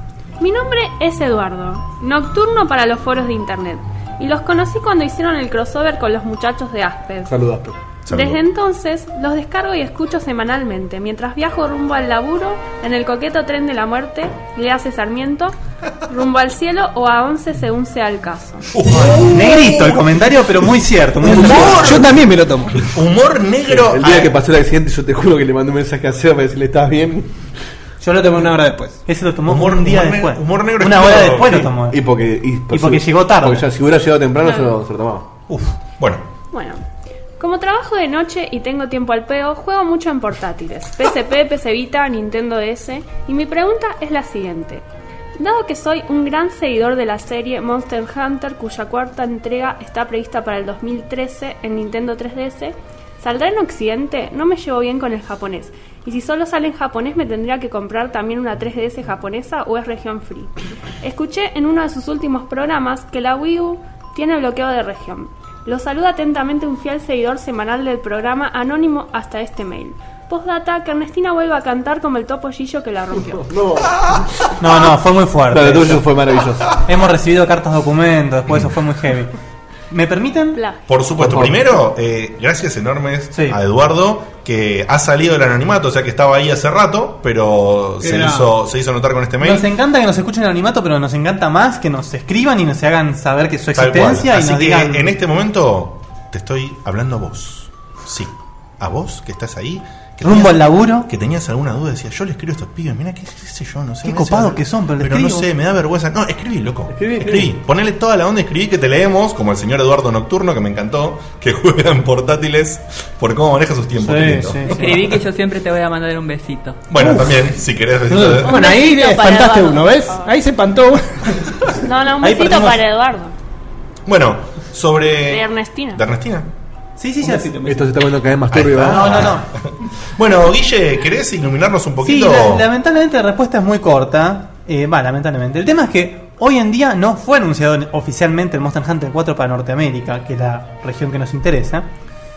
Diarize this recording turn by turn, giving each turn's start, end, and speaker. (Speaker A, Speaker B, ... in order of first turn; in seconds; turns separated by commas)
Speaker A: 0.4-7.3, Speaker B: 7.3-7.8, Speaker C: 8.1-8.4, Speaker A: 8.1-15.6, Speaker A: 16.1-18.7, Speaker C: 18.7-20.1, Speaker D: 19.2-22.0, Speaker C: 21.2-22.1, Speaker E: 21.2-22.9, Speaker C: 22.8-24.3, Speaker B: 23.7-27.4, Speaker E: 28.0-29.0, Speaker D: 29.1-32.0, Speaker C: 29.5-31.7, Speaker B: 31.9-35.3, Speaker D: 32.7-33.7, Speaker A: 34.4-34.7, Speaker C: 35.5-36.3, Speaker A: 36.5-36.8, Speaker A: 37.4-44.8, Speaker A: 45.4-60.5, Speaker A: 61.0-73.5, Speaker B: 73.5-74.2, Speaker D: 74.6-76.1, Speaker B: 75.5-76.7, Speaker D: 76.8-79.3, Speaker D: 79.9-80.6, Speaker A: 80.5-80.8, Speaker C: 80.9-89.7, Speaker B: 81.2-81.7, Speaker D: 83.3-83.6, Speaker E: 88.0-88.5, Speaker D: 89.4-95.1, Speaker C: 93.8-114.8, Speaker D: 100.2-101.1, Speaker D: 104.0-105.5, Speaker B: 106.9-107.5, Speaker D: 114.0-115.0, Speaker F: 114.7-116.8, Speaker C: 116.9-118.7, Speaker E: 118.1-121.5, Speaker A: 118.4-120.3, Speaker A: 121.8-123.3, Speaker D: 122.2-122.8, Speaker C: 124.1-126.5, Speaker A: 125.3-126.0, Speaker D: 127.0-127.5, Speaker E: 127.2-127.9, Speaker B: 127.7-129.4, Speaker C: 128.5-129.5, Speaker D: 128.8-129.5, Speaker C: 130.2-132.7, Speaker D: 132.0-141.9